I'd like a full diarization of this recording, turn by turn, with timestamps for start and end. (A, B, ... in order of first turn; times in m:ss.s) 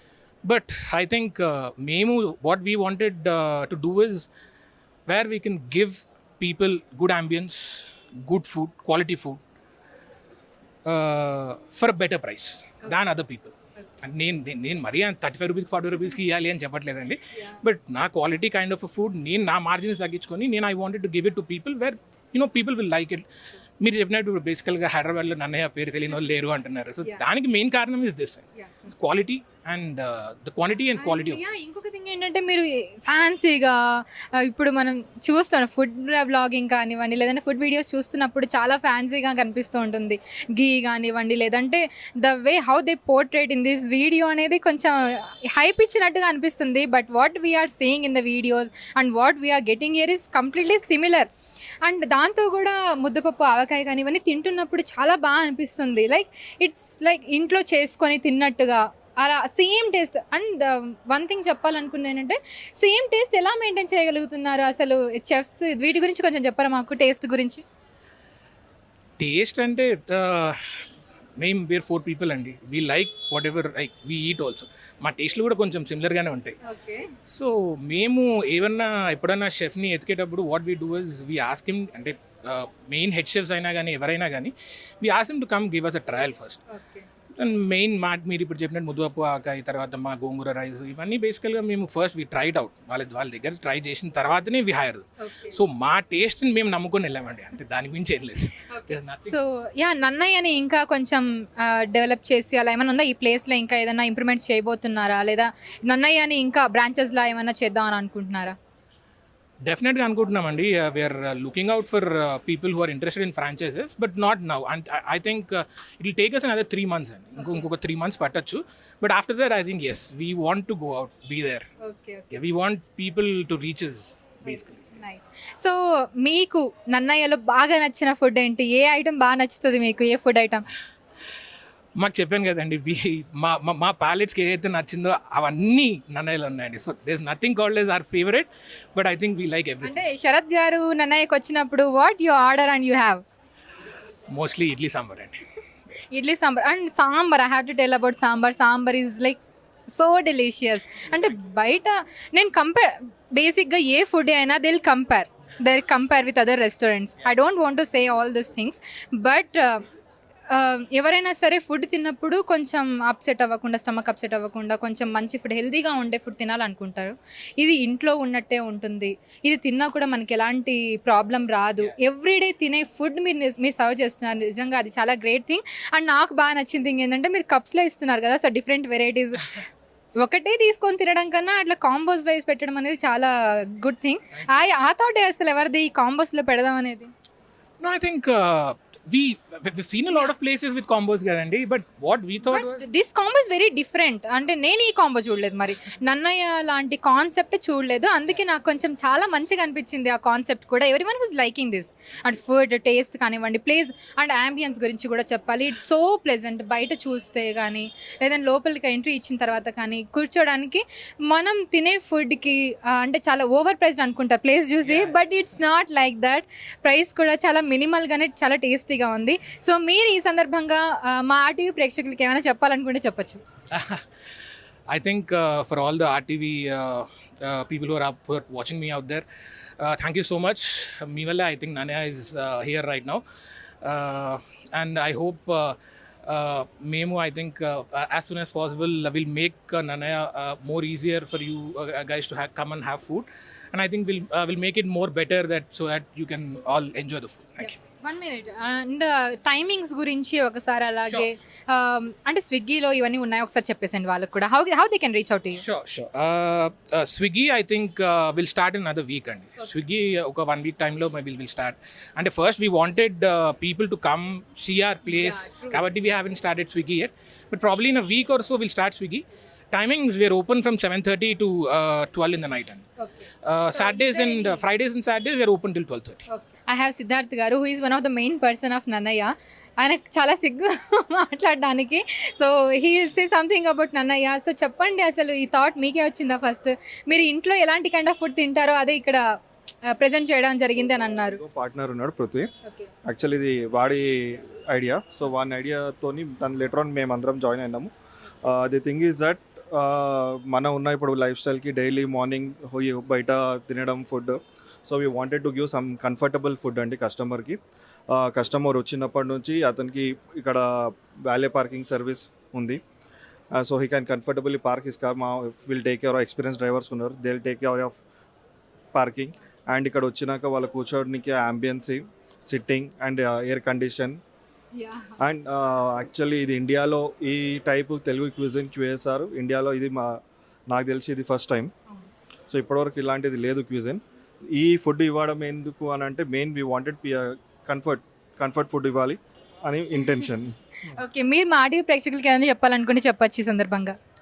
0:00.4-0:04.3 A
0:05.1-0:09.4 A
0:10.8-0:23.2 A
0:17.3-0:17.6 B
0:23.8-0:31.5 A
0:28.6-0:28.9 B
0:31.0-0:33.8 B
0:34.4-0:51.3 B
0:51.8-1:07.6 B
1:09.2-1:10.8 A
1:11.4-1:16.6 A
1:16.6-1:17.1 B
1:17.3-1:26.6 A
1:26.7-1:27.1 B
1:27.4-1:39.4 A
1:35.2-1:35.6 B
1:38.7-1:48.6 B
1:49.6-2:01.7 A
2:01.8-2:02.4 B
2:02.3-2:04.8 A
2:04.5-2:10.6 B
2:12.0-2:20.0 A
2:19.8-2:23.2 B
2:24.3-2:25.4 A
2:26.1-2:29.4 B
2:29.9-2:39.8 B
2:40.5-2:59.5 B
3:00.2-3:07.1 B
3:07.8-3:12.9 A
3:12.5-3:43.4 B
3:34.8-3:35.1 A
3:43.7-3:44.0 A
3:44.9-3:49.2 A
3:49.8-3:53.2 A
3:53.8-4:07.8 A
4:07.6-4:15.6 B
4:15.6-4:32.9 A
4:25.0-4:25.8 B
4:33.0-4:34.6 B
4:33.4-4:36.2 A
4:36.3-4:49.2 B
4:49.9-4:51.4 B
4:51.4-4:52.5 C
4:52.6-4:52.9 B
4:53.0-4:57.9 C
4:58.4-5:07.6 C
5:08.1-5:12.8 C
5:13.5-5:18.0 C
5:18.9-5:24.2 C
5:24.8-5:25.2 B
5:25.2-5:31.7 C
5:32.5-5:40.6 C
5:40.9-5:44.0 B